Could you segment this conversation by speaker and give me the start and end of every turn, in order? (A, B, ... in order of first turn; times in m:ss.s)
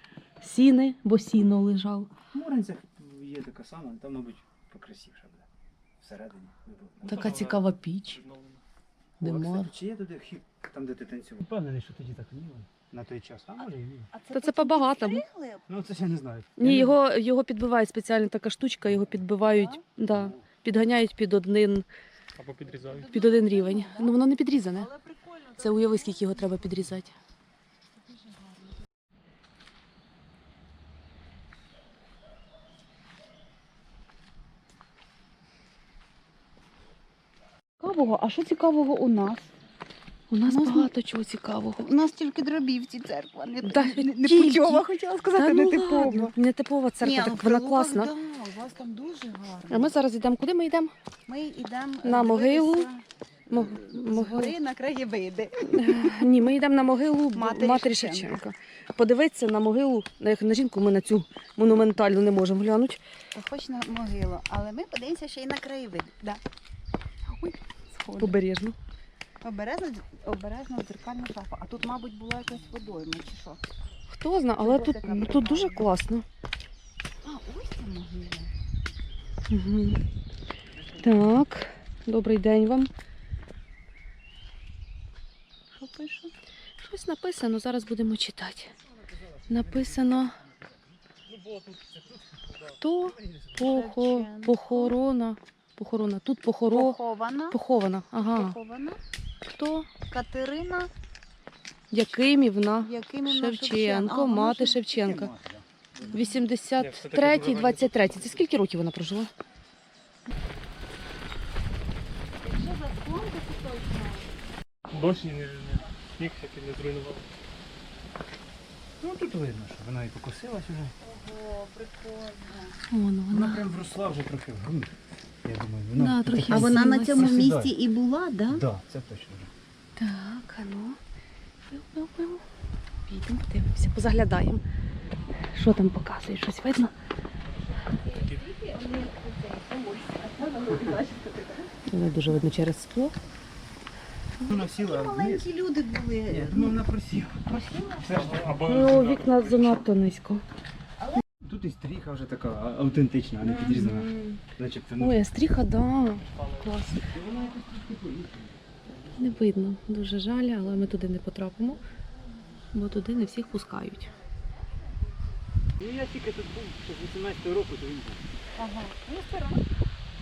0:00.4-0:02.1 A
0:02.3-0:05.5 B
0:06.0-0:07.4 B
0:07.0-0:08.2 A
0:07.0-0:08.6 C
0:09.2-0:09.7 A
0:09.2-0:14.1 B
0:14.1-0:15.6 D
0:14.3-0:15.2 A
0:15.7-0:17.0 B
0:16.6-0:21.9 A
0:19.5-0:19.8 D
0:20.1-0:20.4 B
0:22.4-0:23.1 C
0:22.8-0:24.2 D
0:23.1-0:24.9 A
0:24.7-0:26.6 D
0:25.6-0:27.1 A
0:27.9-0:28.7 D
0:37.8-0:39.5 D
0:40.3-0:41.9 A
0:40.4-0:40.9 D
0:41.8-0:46.3 D
0:43.6-0:48.1 A
0:47.0-0:49.9 D
0:49.7-0:50.9 A
0:51.3-0:56.2 D
0:52.0-0:52.9 A
0:53.5-0:54.6 A
0:55.7-1:03.0 A
0:57.3-0:58.3 D
1:03.3-1:06.4 D
1:07.3-1:08.4 D
1:08.2-1:08.8 A
1:09.4-1:13.6 D
1:14.1-1:16.2 A
1:14.6-1:15.9 D
1:17.2-1:18.5 D
1:19.5-1:20.0 A
1:21.0-1:22.9 A
1:25.7-1:26.3 D
1:26.8-1:28.7 A
1:29.5-1:30.3 A
1:31.3-1:32.7 C
1:32.8-1:37.0 A
1:33.6-1:35.0 D
1:36.7-1:37.6 D
1:37.5-1:38.6 A
1:38.3-1:39.0 D
1:39.5-1:39.9 A
1:40.1-1:40.9 D
1:41.9-1:45.3 A
1:42.8-1:44.8 D
1:44.9-1:46.4 B
1:46.1-1:49.3 A
1:46.8-1:48.4 C
1:52.4-1:54.3 D
1:54.9-1:57.2 C
1:59.0-2:00.9 B
2:01.0-2:02.8 D
2:02.9-2:03.6 A
2:03.3-2:07.8 B
2:06.0-2:07.4 A
2:06.5-2:08.6 D
2:08.5-2:09.5 B
2:10.0-2:11.0 A
2:11.7-2:12.4 A
2:13.1-2:14.6 A
2:15.5-2:16.9 A
2:17.8-2:21.7 D
2:21.9-2:23.2 A
2:24.4-2:26.8 D
2:24.4-2:25.5 B
2:26.3-2:28.7 B
2:27.6-2:28.2 D
2:28.1-2:29.8 C
2:28.6-2:30.4 A
2:31.4-2:35.3 B
2:33.4-2:34.4 A
2:35.0-2:37.1 A
2:36.2-2:36.7 C
2:37.1-2:38.6 B
2:39.2-2:41.8 A
2:42.7-2:44.1 A
2:45.8-2:48.2 B
2:48.6-2:49.6 D